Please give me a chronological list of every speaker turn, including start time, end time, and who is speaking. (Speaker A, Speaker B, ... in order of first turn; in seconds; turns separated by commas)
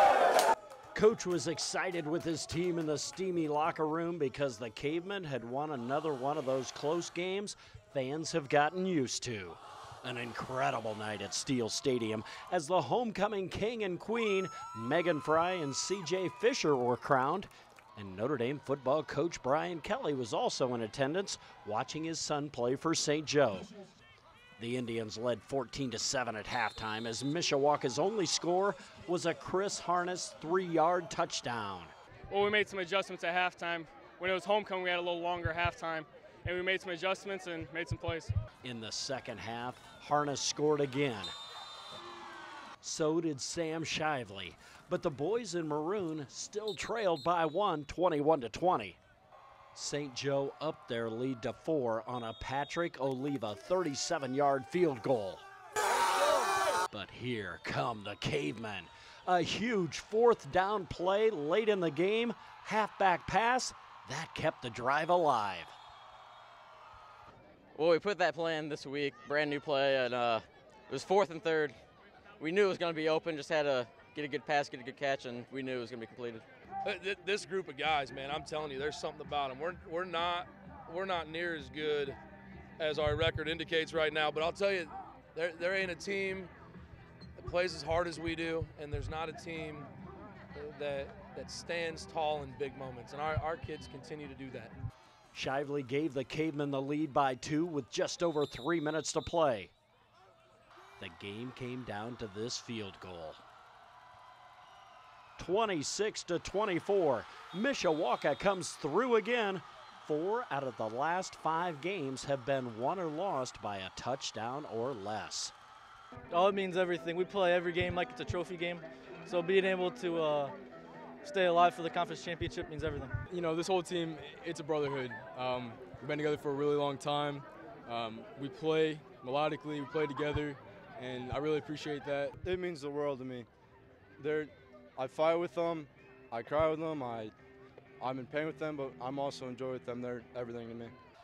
Speaker A: 0.9-23.7, Speaker A: 24.6-31.9, Speaker B: 32.3-38.3, Speaker A: 38.6-41.3, Speaker A: 42.8-49.0, Speaker A: 49.8-55.5, Speaker A: 56.9-65.8, Speaker C: 67.8-71.8, Speaker C: 72.4-76.4, Speaker D: 76.8-82.2, Speaker D: 82.8-86.5, Speaker D: 87.4-89.9, Speaker D: 90.5-94.7, Speaker A: 95.3-99.7, Speaker A: 101.0-103.4, Speaker A: 105.4-115.5, Speaker E: 116.3-120.5, Speaker E: 121.2-123.2, Speaker F: 123.3-132.3, Speaker G: 132.3-133.5, Speaker G: 134.2-137.3, Speaker G: 138.0-140.9